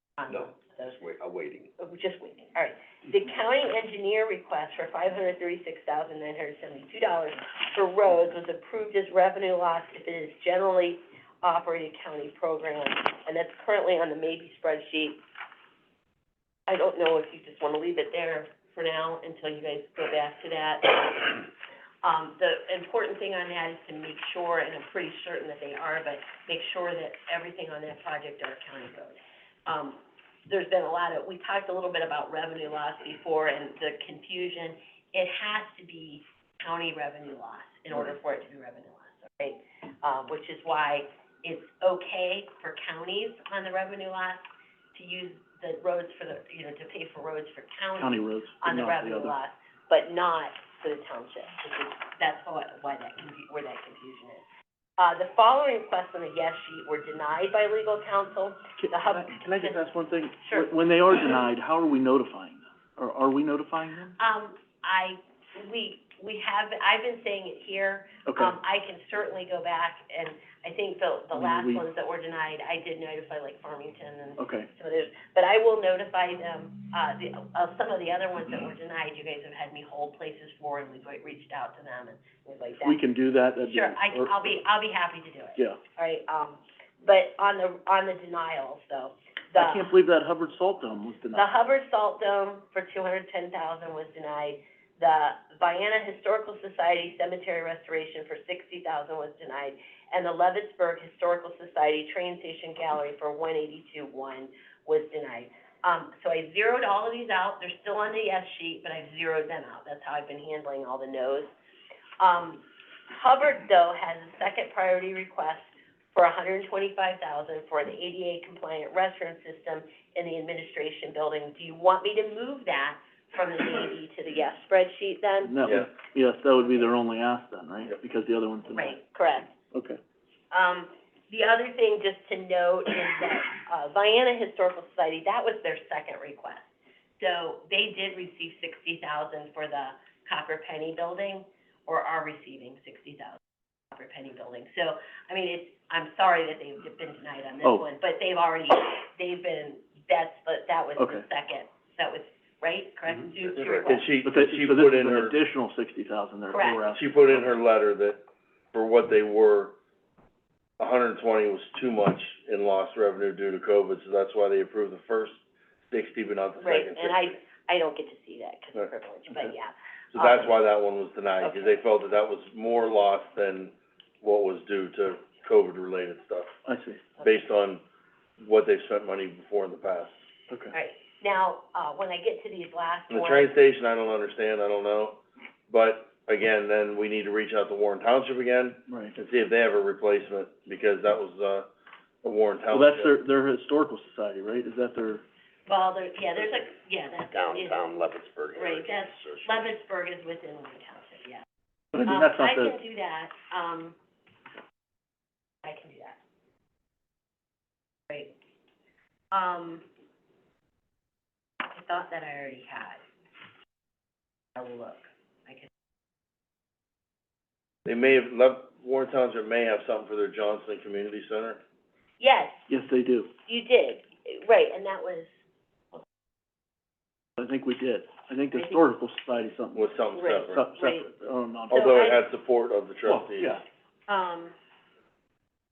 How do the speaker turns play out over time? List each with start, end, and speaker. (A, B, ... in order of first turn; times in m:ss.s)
0:00.2-0:01.0 A
0:00.3-0:01.7 B
0:01.8-0:15.2 A
0:16.7-0:21.4 A
0:22.0-0:54.4 A
0:48.0-0:49.4 C
0:55.0-0:59.8 A
0:58.8-1:04.2 C
1:00.4-1:00.7 A
1:04.2-1:23.0 A
1:08.3-1:08.6 C
1:11.3-1:11.8 C
1:14.4-1:14.7 C
1:22.8-1:24.4 C
1:23.6-1:29.9 A
1:29.6-1:31.5 C
1:31.3-1:51.5 A
1:52.2-2:05.6 A
2:05.4-2:09.0 C
2:05.6-2:05.9 D
2:08.7-2:09.6 A
2:09.7-2:10.0 C
2:10.5-2:34.1 A
2:31.0-2:31.2 C
2:33.3-2:34.0 B
2:33.8-2:35.4 D
2:34.2-2:37.5 C
2:36.5-2:36.8 A
2:36.9-2:39.8 D
2:40.8-2:45.4 D
2:45.9-2:47.4 D
2:46.6-2:50.5 A
2:50.1-2:56.5 D
2:51.4-2:51.8 A
2:56.6-2:57.0 C
2:57.2-2:57.8 D
2:58.4-3:00.2 D
3:00.7-3:03.5 A
3:03.1-3:11.7 D
3:08.9-3:09.2 C
3:12.2-3:13.1 D
3:12.7-3:15.2 C
3:15.7-3:17.8 A
3:17.3-3:19.7 B
3:18.6-3:21.4 A
3:21.9-3:22.8 C
3:22.1-3:24.0 A
3:25.6-3:26.2 A
3:29.3-3:29.9 A
3:31.6-3:33.0 A
3:34.6-3:35.7 A
3:37.8-3:41.6 D
3:42.2-3:42.7 A
3:42.7-3:43.3 C
3:43.5-3:45.3 A
3:47.4-3:51.9 C
3:49.8-3:50.6 D
3:50.1-3:51.1 A
3:51.7-3:52.2 A
3:51.7-3:53.6 D
3:53.0-3:53.6 C
3:54.1-3:54.5 A